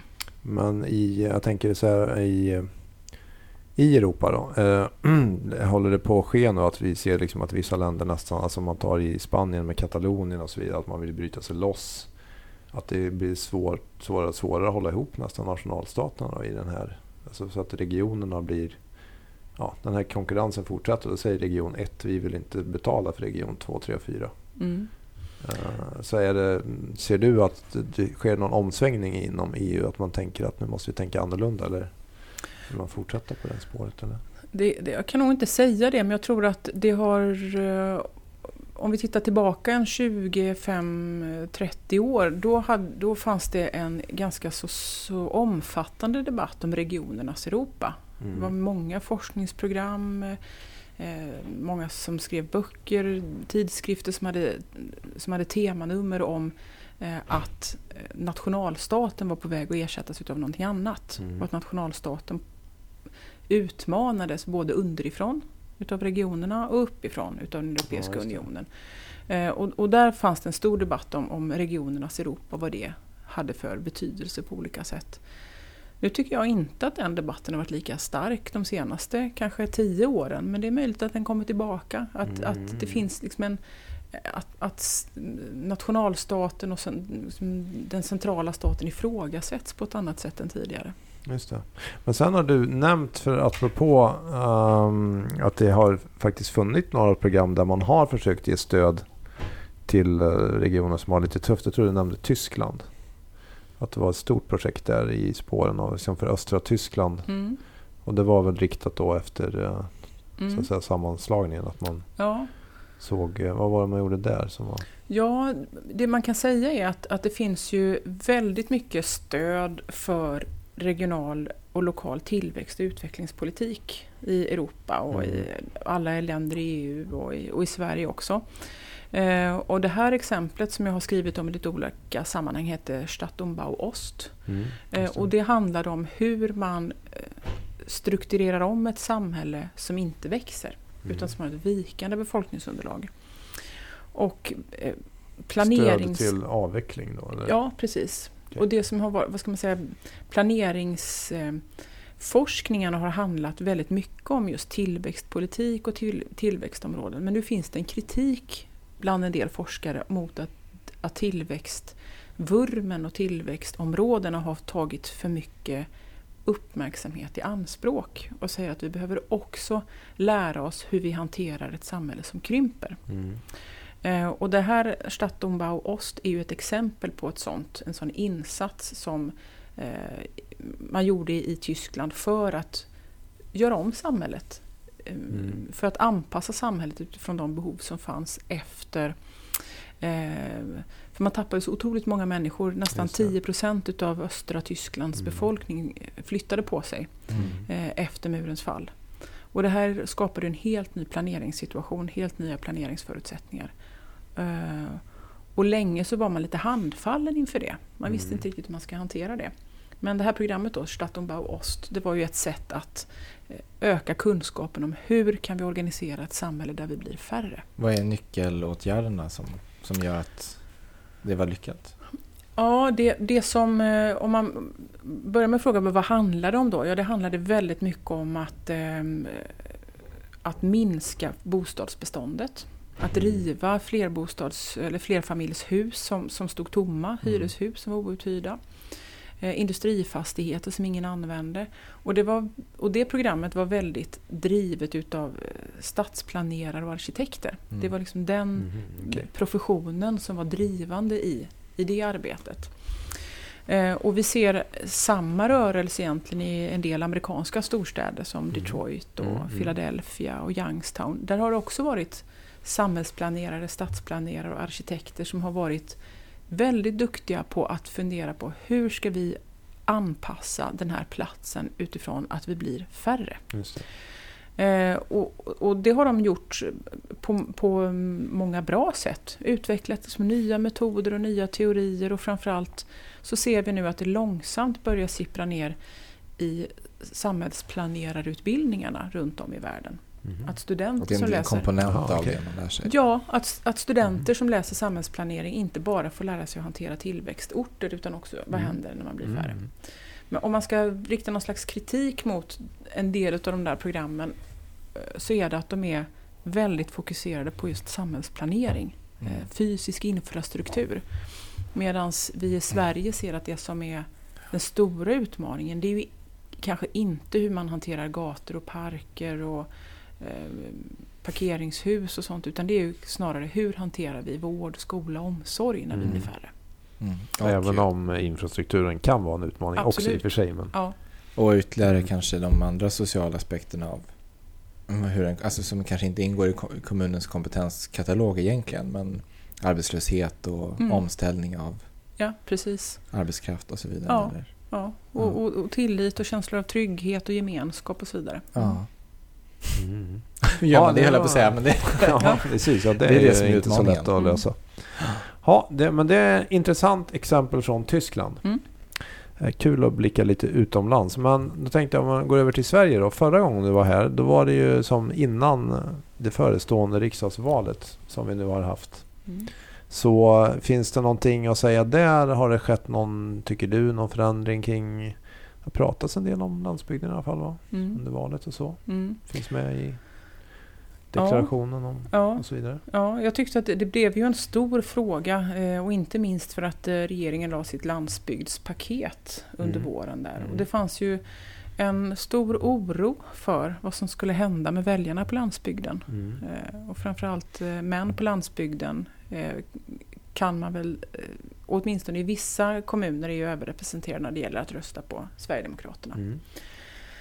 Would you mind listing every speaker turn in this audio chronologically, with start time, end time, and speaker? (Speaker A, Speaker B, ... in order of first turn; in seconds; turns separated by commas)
Speaker A: 0.4-34.2, Speaker B: 24.6-24.9, Speaker B: 34.5-38.1, Speaker B: 38.7-50.4, Speaker A: 48.2-48.5, Speaker B: 51.0-62.4, Speaker A: 61.2-61.5, Speaker B: 63.5-75.2, Speaker A: 67.9-68.5, Speaker B: 76.0-83.6, Speaker A: 82.3-83.0, Speaker B: 84.1-90.9, Speaker A: 91.2-114.9, Speaker B: 107.3-107.6, Speaker B: 110.4-110.7, Speaker B: 112.2-112.5, Speaker B: 115.1-146.3, Speaker A: 125.1-125.5, Speaker A: 134.5-135.2, Speaker A: 141.1-141.3, Speaker A: 145.6-147.6, Speaker B: 147.4-151.6, Speaker B: 152.2-165.9, Speaker B: 166.4-173.0, Speaker A: 173.1-173.4, Speaker B: 174.0-182.9, Speaker B: 183.5-203.7, Speaker A: 185.3-185.6, Speaker A: 192.9-193.3, Speaker A: 195.2-195.4, Speaker A: 197.4-197.7, Speaker B: 204.3-217.7, Speaker A: 208.1-208.4, Speaker C: 217.8-221.9, Speaker B: 222.6-229.6, Speaker B: 230.4-273.7, Speaker A: 233.1-233.4, Speaker A: 237.2-237.5, Speaker A: 248.6-249.2, Speaker A: 258.5-259.7, Speaker A: 273.5-273.9, Speaker B: 274.6-285.8, Speaker B: 286.4-291.7, Speaker C: 291.0-292.9, Speaker A: 291.9-292.4, Speaker B: 292.9-326.5, Speaker A: 298.5-299.7, Speaker A: 325.9-326.3, Speaker C: 327.0-327.9, Speaker A: 327.4-330.8, Speaker B: 329.8-331.0, Speaker C: 331.4-341.8, Speaker B: 340.8-341.1, Speaker B: 342.2-343.1, Speaker C: 343.1-345.4, Speaker B: 344.1-348.8, Speaker C: 348.6-349.5, Speaker A: 349.8-380.6, Speaker C: 350.6-354.3, Speaker B: 354.2-354.4, Speaker B: 377.7-379.2, Speaker A: 381.1-382.8, Speaker B: 381.1-406.2, Speaker A: 389.6-390.6, Speaker A: 396.1-396.4, Speaker A: 406.1-406.4